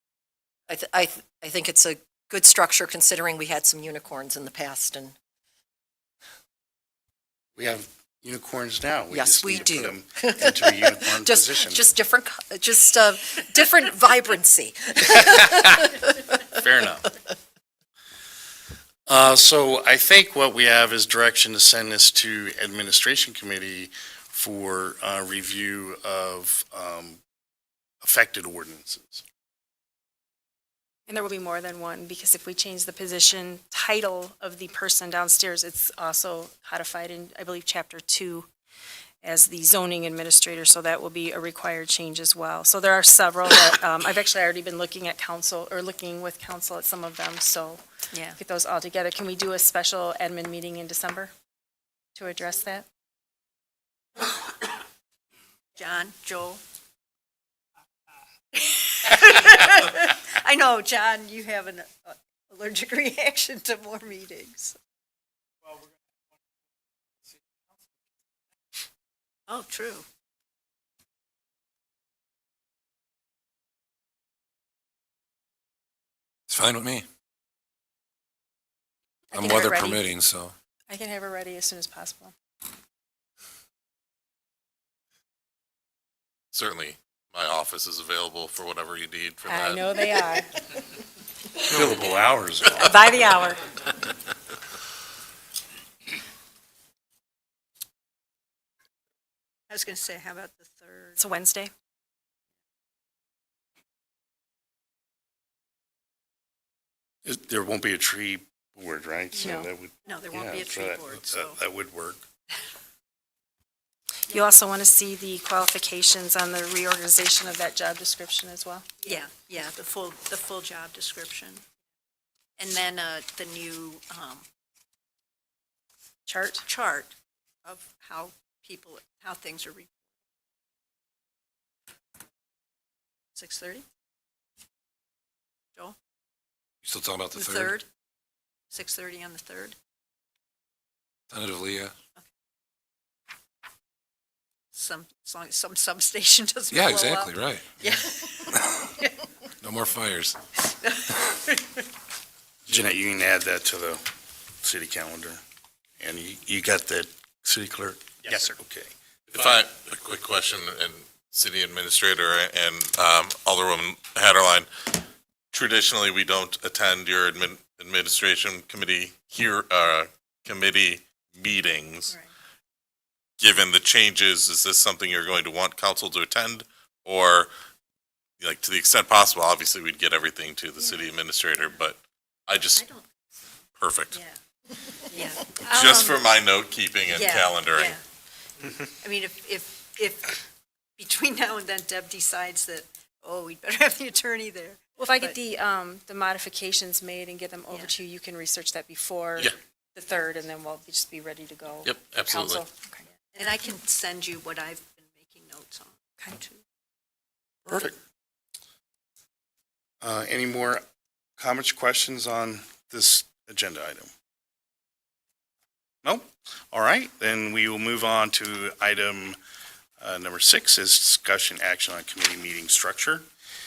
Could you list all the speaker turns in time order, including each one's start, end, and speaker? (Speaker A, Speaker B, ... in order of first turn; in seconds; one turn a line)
Speaker A: 0.8-5.1
Speaker B: 7.5-11.9
Speaker A: 9.1-10.5
Speaker A: 11.0-15.5
Speaker B: 16.5-17.1
Speaker B: 19.1-27.2
Speaker B: 28.0-29.2
Speaker C: 31.1-38.5
Speaker C: 39.2-47.8
Speaker C: 48.3-51.3
Speaker C: 52.1-52.9
Speaker D: 55.8-56.6
Speaker D: 58.5-64.8
Speaker D: 69.5-70.0
Speaker E: 76.5-77.1
Speaker C: 79.3-80.0
Speaker E: 79.3-80.5
Speaker C: 80.9-82.3
Speaker F: 86.5-89.9
Speaker C: 89.5-90.5
Speaker B: 91.7-93.1
Speaker C: 92.8-93.6
Speaker D: 99.7-101.2
Speaker C: 101.2-101.7
Speaker B: 107.2-112.2
Speaker C: 109.4-109.7
Speaker D: 110.0-111.6
Speaker C: 114.3-119.2
Speaker D: 119.0-121.6
Speaker D: 122.6-124.4
Speaker C: 126.2-126.6
Speaker D: 126.6-127.1
Speaker D: 127.6-129.9
Speaker D: 133.3-133.8
Speaker E: 136.8-137.8
Speaker D: 137.3-137.8
Speaker D: 138.7-139.8
Speaker E: 141.3-141.9
Speaker D: 144.7-149.1
Speaker E: 146.7-148.9
Speaker E: 149.6-150.4
Speaker D: 150.8-151.6
Speaker B: 152.7-154.0
Speaker B: 154.6-155.4
Speaker B: 156.0-158.9
Speaker F: 159.3-164.7
Speaker F: 165.5-172.2
Speaker F: 173.4-177.5
Speaker F: 178.4-182.9
Speaker D: 180.8-181.8
Speaker D: 182.7-183.3
Speaker F: 183.8-184.2
Speaker D: 184.1-184.4
Speaker D: 185.1-186.2
Speaker F: 185.6-188.0
Speaker D: 187.1-188.0
Speaker D: 189.0-190.4
Speaker D: 191.0-195.3
Speaker C: 195.0-203.0
Speaker F: 201.8-202.6
Speaker D: 203.3-206.6
Speaker B: 207.7-208.0
Speaker B: 210.0-210.8
Speaker B: 211.4-214.1
Speaker B: 216.0-219.4
Speaker B: 220.0-223.2